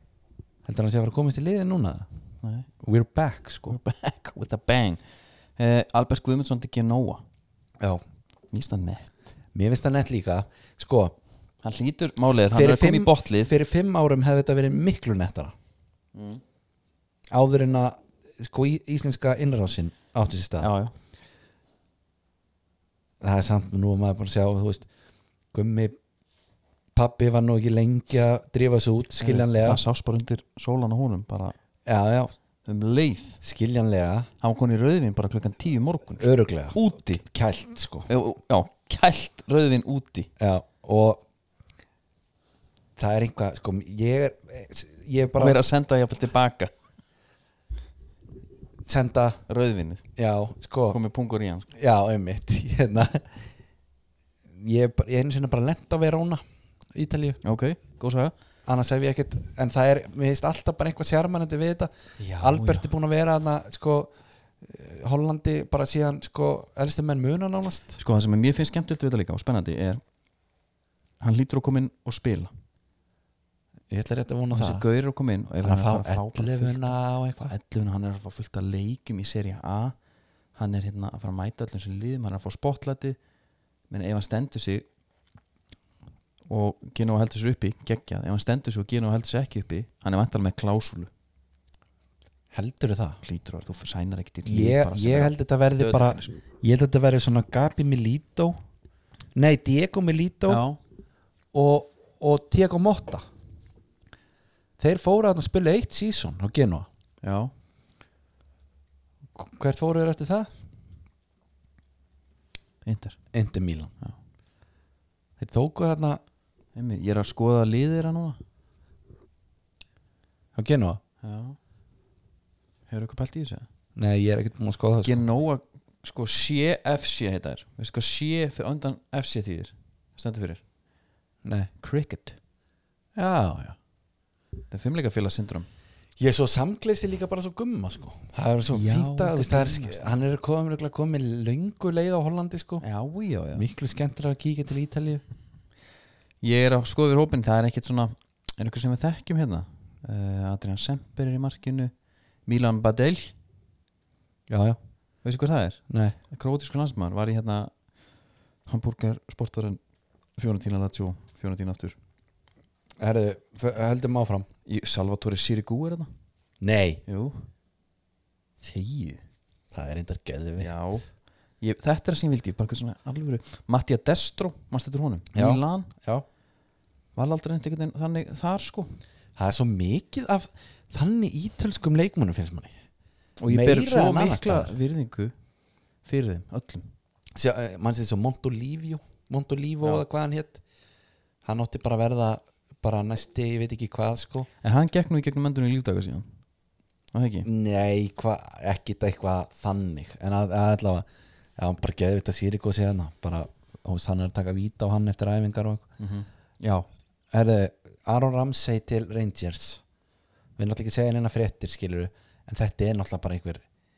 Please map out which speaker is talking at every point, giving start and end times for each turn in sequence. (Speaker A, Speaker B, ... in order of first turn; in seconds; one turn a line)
Speaker A: 0.7-2.1
Speaker B: 2.4-2.7
Speaker A: 2.8-3.8
Speaker B: 3.7-5.0
Speaker B: 5.6-7.2
Speaker B: 8.5-9.1
Speaker A: 9.5-11.2
Speaker B: 11.6-13.5
Speaker A: 12.5-15.5
Speaker B: 16.1-16.4
Speaker A: 17.3-20.7
Speaker B: 20.6-20.9
Speaker A: 23.2-24.9
Speaker A: 25.5-26.0
Speaker A: 26.9-29.8
Speaker B: 29.2-31.6
Speaker A: 31.9-32.3
Speaker B: 32.6-33.4
Speaker A: 33.4-34.3
Speaker B: 34.4-37.2
Speaker A: 36.2-38.1
Speaker B: 38.1-40.3
Speaker A: 40.4-41.2
Speaker A: 43.0-45.6
Speaker B: 45.4-46.7
Speaker A: 48.9-49.4
Speaker B: 49.5-50.0
Speaker A: 50.2-51.0
Speaker B: 50.9-51.7
Speaker A: 51.7-53.5
Speaker A: 54.5-56.4
Speaker A: 56.9-57.4
Speaker B: 57.4-58.3
Speaker A: 58.7-68.0
Speaker B: 62.2-62.9
Speaker B: 68.0-70.0
Speaker B: 71.2-72.5
Speaker A: 73.9-74.8
Speaker B: 74.5-80.0
Speaker A: 75.6-77.5
Speaker B: 80.5-83.2
Speaker B: 83.9-84.9
Speaker B: 86.5-91.1
Speaker A: 92.5-93.2
Speaker B: 93.2-96.4
Speaker A: 94.5-98.6
Speaker A: 99.3-100.6
Speaker B: 100.5-100.8
Speaker A: 101.5-103.3
Speaker A: 104.8-106.9
Speaker B: 107.2-107.5
Speaker A: 109.3-110.5
Speaker B: 112.8-113.2
Speaker A: 113.3-113.9
Speaker A: 115.4-116.2
Speaker B: 116.8-118.4
Speaker A: 120.5-121.0
Speaker B: 121.2-121.6
Speaker B: 122.9-123.7
Speaker A: 124.0-125.2
Speaker B: 125.0-130.6
Speaker A: 131.4-131.7
Speaker B: 131.8-132.4
Speaker A: 133.2-133.8
Speaker B: 134.7-135.7
Speaker A: 136.2-142.8
Speaker B: 138.7-140.2
Speaker B: 142.8-143.7
Speaker A: 143.5-145.2
Speaker B: 146.4-151.9
Speaker B: 152.5-153.3
Speaker A: 154.5-154.8
Speaker B: 155.2-157.7
Speaker A: 155.9-156.2
Speaker B: 158.7-159.8
Speaker B: 160.4-162.0
Speaker A: 163.0-164.5
Speaker B: 164.7-166.1
Speaker A: 166.6-167.0
Speaker B: 167.1-167.5
Speaker B: 168.6-169.2
Speaker A: 169.7-171.0
Speaker B: 170.6-171.1
Speaker B: 171.6-175.9
Speaker A: 175.3-176.3
Speaker B: 177.2-179.0
Speaker A: 179.4-182.7
Speaker B: 183.4-185.3
Speaker A: 183.5-184.7
Speaker B: 186.0-186.9
Speaker A: 187.3-190.6
Speaker A: 191.4-194.5
Speaker B: 194.6-196.3
Speaker B: 197.1-197.5
Speaker A: 197.4-205.9
Speaker B: 206.0-206.9
Speaker A: 207.3-209.8
Speaker A: 210.6-213.6